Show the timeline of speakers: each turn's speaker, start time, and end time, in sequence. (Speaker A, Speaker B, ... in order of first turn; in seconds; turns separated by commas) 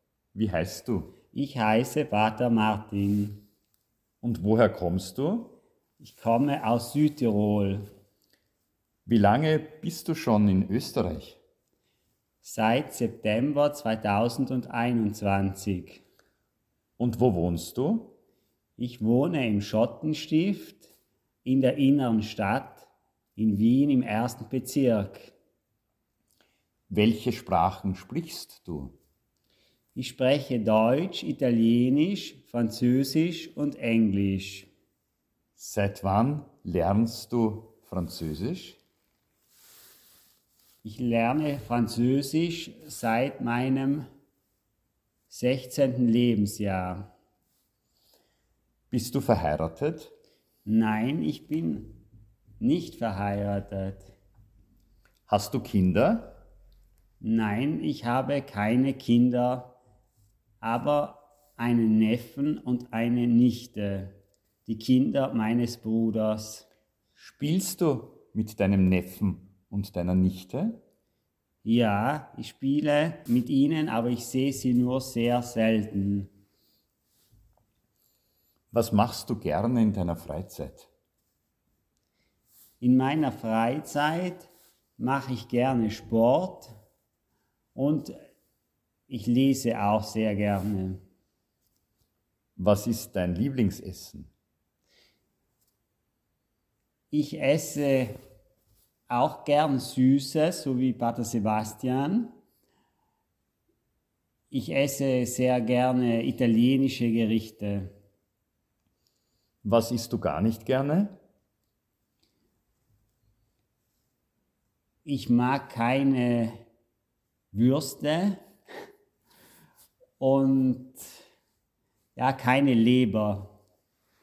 Speaker A: 0.3-1.1, Speaker B: 1.3-3.4, Speaker A: 4.2-5.6, Speaker B: 6.0-7.8, Speaker A: 9.1-11.4, Speaker B: 12.4-16.0, Speaker A: 17.0-18.2, Speaker B: 18.8-20.9, Speaker B: 21.4-25.3, Speaker A: 26.9-28.9, Speaker B: 29.9-34.7, Speaker A: 35.5-38.8, Speaker B: 40.8-44.1, Speaker B: 45.3-47.1, Speaker A: 48.9-50.1, Speaker B: 50.6-52.0, Speaker B: 52.6-54.1, Speaker A: 55.3-56.4, Speaker B: 57.2-59.8, Speaker B: 60.6-66.7, Speaker A: 67.2-70.8, Speaker B: 71.6-76.3, Speaker A: 78.7-80.9, Speaker B: 82.8-86.7, Speaker B: 87.7-88.2, Speaker B: 89.1-91.0, Speaker A: 92.6-94.3, Speaker B: 97.1-98.1, Speaker B: 99.1-102.3, Speaker B: 104.5-107.9, Speaker A: 109.6-111.1, Speaker B: 115.0-116.6, Speaker B: 117.5-118.4, Speaker B: 120.2-121.0, Speaker B: 122.2-123.5